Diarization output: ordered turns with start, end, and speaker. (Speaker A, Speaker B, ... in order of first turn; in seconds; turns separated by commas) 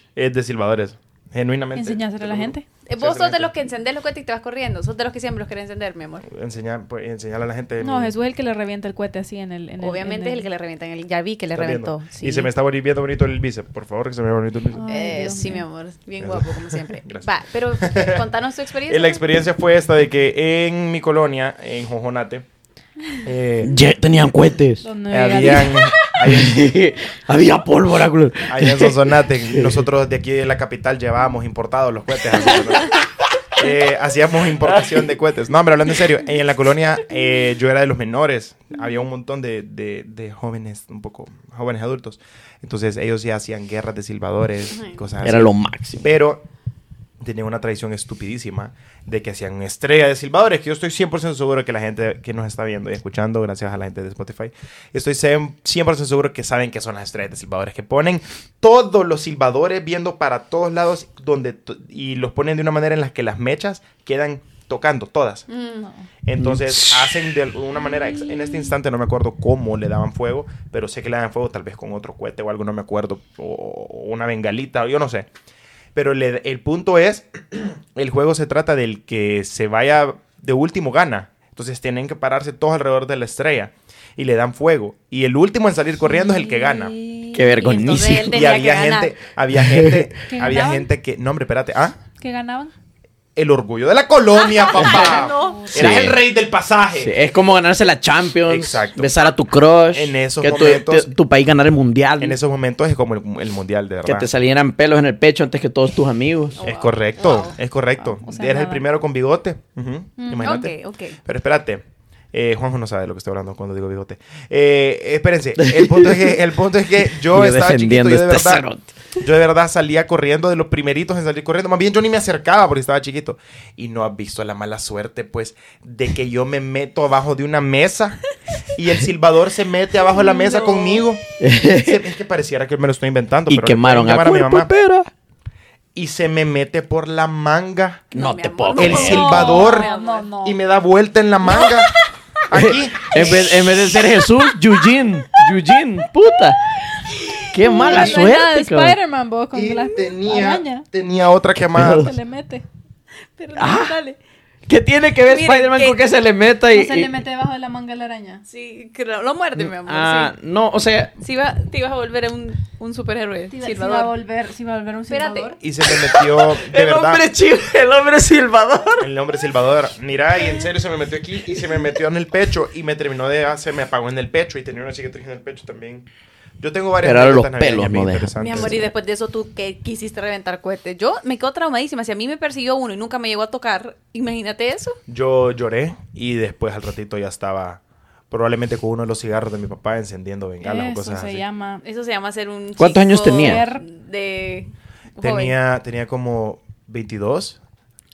Speaker A: 0.1-3.5, Speaker B: 1.7-2.6, Speaker C: 2.9-6.2, Speaker A: 6.3-8.1, Speaker B: 7.8-10.4, Speaker C: 9.8-12.5, Speaker A: 11.5-15.0, Speaker B: 14.7-15.6, Speaker C: 14.9-19.2, Speaker A: 16.2-18.2, Speaker A: 18.9-22.4, Speaker A: 23.2-23.8, Speaker D: 23.6-29.8, Speaker B: 24.8-25.9, Speaker A: 25.1-26.7, Speaker A: 28.5-33.0, Speaker A: 33.5-46.4, Speaker C: 44.7-45.0, Speaker D: 45.2-46.0, Speaker A: 47.2-65.5, Speaker C: 65.5-65.9, Speaker A: 66.2-75.3, Speaker D: 66.4-67.2, Speaker A: 75.9-86.9, Speaker B: 86.0-87.5, Speaker D: 87.3-88.5, Speaker C: 87.5-89.2, Speaker A: 88.2-92.0, Speaker D: 89.5-90.1, Speaker B: 90.3-90.9, Speaker B: 92.2-92.7, Speaker A: 93.3-97.1, Speaker C: 94.3-95.7, Speaker D: 94.8-96.2, Speaker B: 95.1-96.0, Speaker D: 96.9-102.4, Speaker A: 98.5-99.1, Speaker A: 99.9-101.1, Speaker A: 102.2-104.3, Speaker D: 104.0-106.6, Speaker C: 106.6-107.5, Speaker A: 106.6-110.7, Speaker B: 108.0-108.8, Speaker B: 110.2-110.7, Speaker C: 110.4-111.2, Speaker A: 111.2-118.7, Speaker D: 115.6-116.3, Speaker D: 117.1-119.2, Speaker A: 119.2-128.2, Speaker A: 128.7-134.7, Speaker B: 130.2-130.7, Speaker C: 130.3-131.0, Speaker D: 131.4-132.0, Speaker D: 133.5-135.1, Speaker A: 135.9-138.0, Speaker D: 138.1-139.5, Speaker C: 138.1-140.3, Speaker A: 138.7-139.9, Speaker B: 138.9-140.6, Speaker A: 140.4-141.9, Speaker D: 141.5-141.8, Speaker A: 142.5-143.6, Speaker D: 142.5-146.6, Speaker B: 147.4-150.8, Speaker D: 147.5-149.0, Speaker A: 147.8-148.3, Speaker A: 149.5-152.1, Speaker D: 151.7-152.1, Speaker B: 151.7-152.6, Speaker C: 153.4-154.2, Speaker D: 153.6-154.0, Speaker D: 154.7-157.2, Speaker C: 155.2-156.1, Speaker B: 156.7-158.4, Speaker C: 158.5-160.3, Speaker D: 159.6-161.1, Speaker C: 161.2-164.1, Speaker B: 163.5-165.6, Speaker C: 165.1-165.5, Speaker A: 165.6-167.3, Speaker D: 165.9-169.1, Speaker A: 169.0-176.1, Speaker A: 176.6-178.9, Speaker D: 177.0-178.3, Speaker C: 178.4-185.0, Speaker A: 185.1-191.4, Speaker B: 190.6-191.8, Speaker C: 191.8-195.6, Speaker D: 192.8-193.6, Speaker B: 193.2-193.8, Speaker A: 195.2-197.6